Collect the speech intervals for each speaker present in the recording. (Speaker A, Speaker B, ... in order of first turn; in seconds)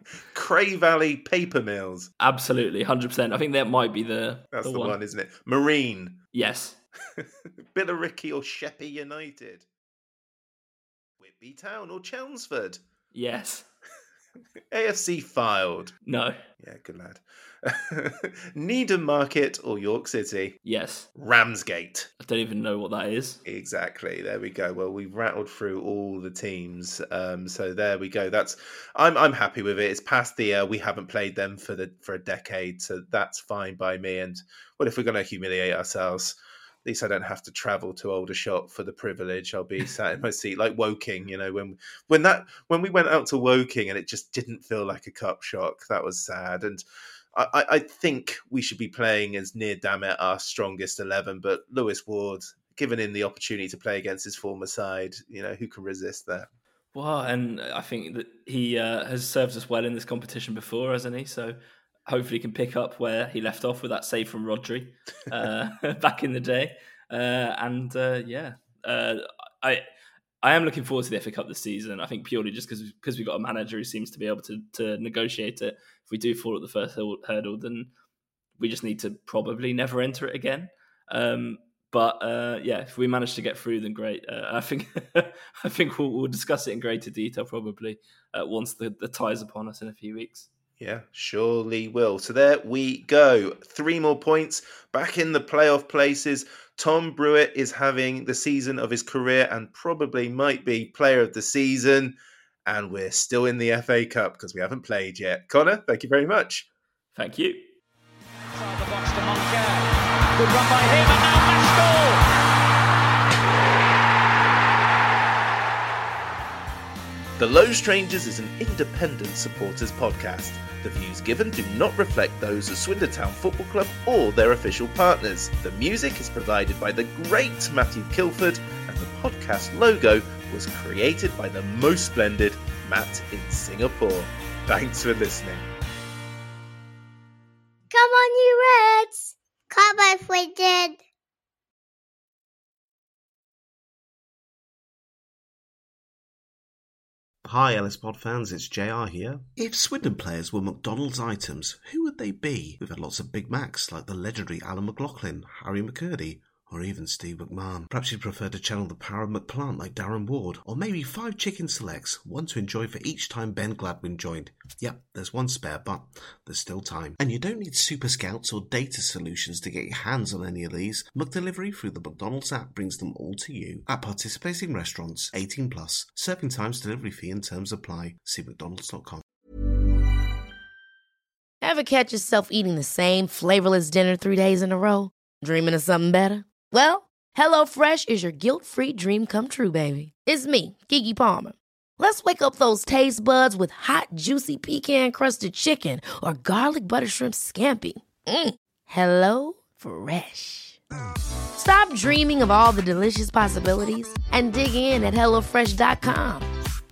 Speaker A: 0.3-2.1, 4.5-6.2, 7.2-9.7, 11.2-12.8, 14.7-15.9, 16.6-20.6, 21.1-22.1, 23.4-46.8, 47.3-56.5, 90.8-106.7, 117.4-135.7
Speaker B: 2.2-5.0, 6.3-6.8, 13.1-13.7, 16.0-16.4, 20.6-21.1, 22.2-23.4, 56.9-69.8, 70.4-77.9, 78.6-90.5, 107.1-107.7
Speaker C: 108.5-112.2
Speaker D: 137.9-141.0
Speaker E: 147.4-179.2
Speaker F: 181.6-200.8, 201.6-206.5